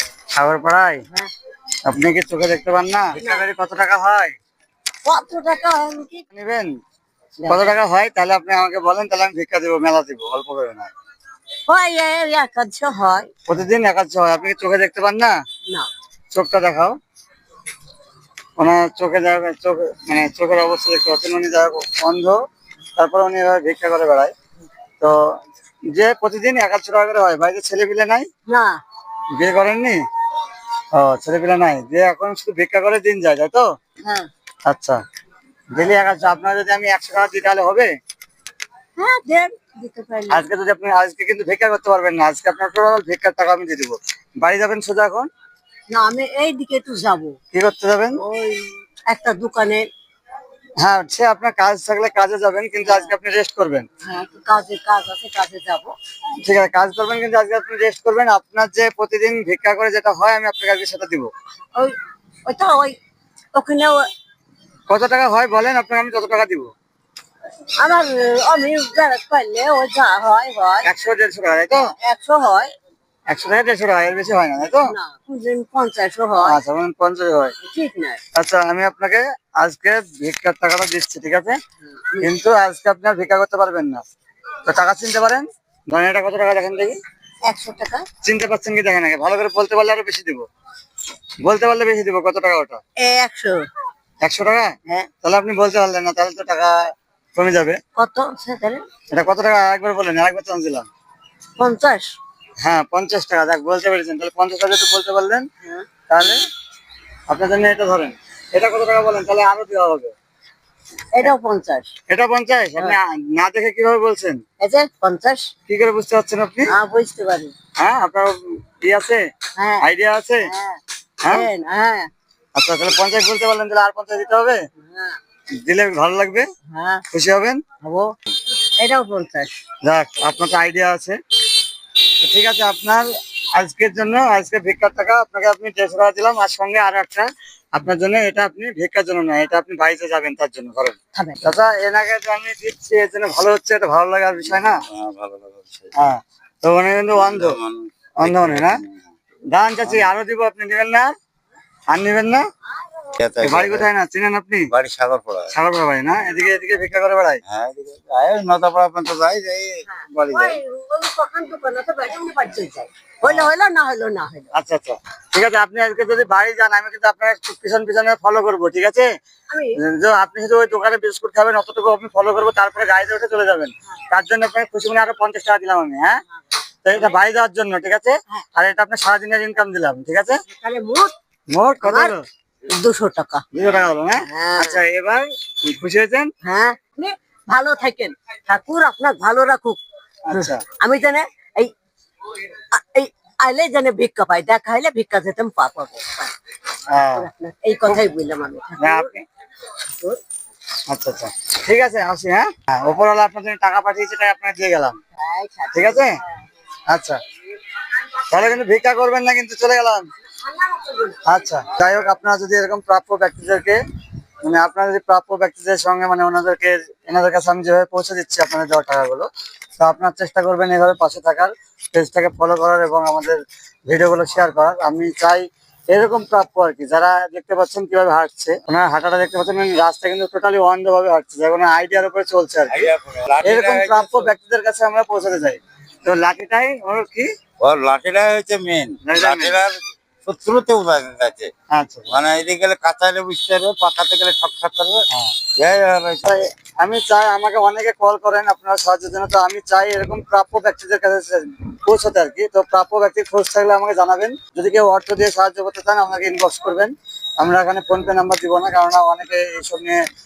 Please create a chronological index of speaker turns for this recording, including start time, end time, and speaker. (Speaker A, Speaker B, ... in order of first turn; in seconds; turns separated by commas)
Speaker A: 0.3-1.0, Speaker A: 1.9-4.3, Speaker B: 3.2-3.5, Speaker B: 5.0-6.2, Speaker A: 6.3-6.8, Speaker B: 7.4-7.7, Speaker A: 7.5-10.9, Speaker B: 11.7-13.3, Speaker A: 13.5-15.3, Speaker A: 16.3-17.0, Speaker A: 18.6-22.4, Speaker A: 22.9-24.3, Speaker A: 25.0-25.4, Speaker A: 25.9-28.3, Speaker B: 28.5-28.8, Speaker A: 29.3-30.0, Speaker A: 30.9-33.7, Speaker A: 34.6-35.0, Speaker A: 35.7-37.9, Speaker B: 39.0-40.5, Speaker A: 40.3-45.3, Speaker B: 45.9-47.4, Speaker A: 47.5-48.2, Speaker B: 48.2-49.9, Speaker A: 50.8-53.9, Speaker B: 52.8-53.1, Speaker B: 54.0-55.9, Speaker A: 56.4-61.3, Speaker B: 61.7-63.0, Speaker B: 63.5-64.1, Speaker A: 64.9-66.7, Speaker B: 67.8-70.9, Speaker A: 70.8-71.9, Speaker B: 71.7-72.7, Speaker A: 73.3-74.9, Speaker B: 74.7-76.6, Speaker A: 76.4-77.5, Speaker B: 77.6-78.2, Speaker A: 78.3-81.6, Speaker B: 81.8-82.3, Speaker A: 82.2-84.0, Speaker A: 84.6-87.0, Speaker B: 87.4-88.0, Speaker A: 88.2-90.4, Speaker A: 91.4-92.8, Speaker B: 93.0-93.6, Speaker A: 94.2-97.8, Speaker B: 98.0-98.8, Speaker A: 99.1-100.9, Speaker B: 101.6-102.1, Speaker A: 102.6-105.5, Speaker A: 106.1-106.4, Speaker A: 107.3-110.1, Speaker B: 111.1-111.9, Speaker A: 112.1-114.4, Speaker B: 114.6-115.5, Speaker A: 115.7-116.7, Speaker B: 116.7-117.5, Speaker A: 117.8-119.2, Speaker B: 119.6-119.8, Speaker A: 119.8-120.5, Speaker B: 120.4-122.1, Speaker A: 122.5-124.6, Speaker B: 124.8-125.2, Speaker A: 125.6-126.5, Speaker B: 126.7-127.0, Speaker A: 127.1-127.6, Speaker B: 127.8-128.1, Speaker B: 128.8-129.5, Speaker A: 129.8-131.2, Speaker A: 132.2-144.8, Speaker B: 141.2-141.4, Speaker C: 144.7-145.9, Speaker A: 145.9-147.6, Speaker C: 147.1-149.1, Speaker A: 148.2-148.8, Speaker A: 149.5-151.1, Speaker A: 151.9-152.4, Speaker C: 153.2-153.9, Speaker A: 153.4-154.7, Speaker C: 154.7-155.5, Speaker A: 155.5-157.4, Speaker C: 157.4-160.5, Speaker B: 159.9-164.5, Speaker A: 160.1-160.4, Speaker A: 164.5-169.1, Speaker B: 169.5-169.7, Speaker A: 169.8-176.2, Speaker A: 176.8-180.4, Speaker B: 180.5-181.1, Speaker A: 181.5-182.2, Speaker B: 181.8-182.1, Speaker B: 182.7-183.4, Speaker A: 183.5-186.3, Speaker B: 184.3-184.8, Speaker B: 186.4-189.8, Speaker A: 190.3-190.6, Speaker B: 190.3-191.7, Speaker B: 192.7-196.3, Speaker A: 196.9-197.3, Speaker B: 197.1-199.1, Speaker A: 198.8-199.2, Speaker B: 199.9-200.2, Speaker A: 200.9-205.0, Speaker B: 205.2-206.3, Speaker A: 205.7-206.2, Speaker A: 206.9-207.2, Speaker A: 208.3-210.1, Speaker B: 210.4-211.4, Speaker A: 211.2-213.8, Speaker A: 214.4-232.9, Speaker C: 232.7-234.3, Speaker A: 233.4-237.3, Speaker C: 237.6-241.5, Speaker A: 239.0-239.6, Speaker A: 241.7-242.1, Speaker C: 242.1-245.0, Speaker C: 245.6-246.3, Speaker A: 246.2-260.0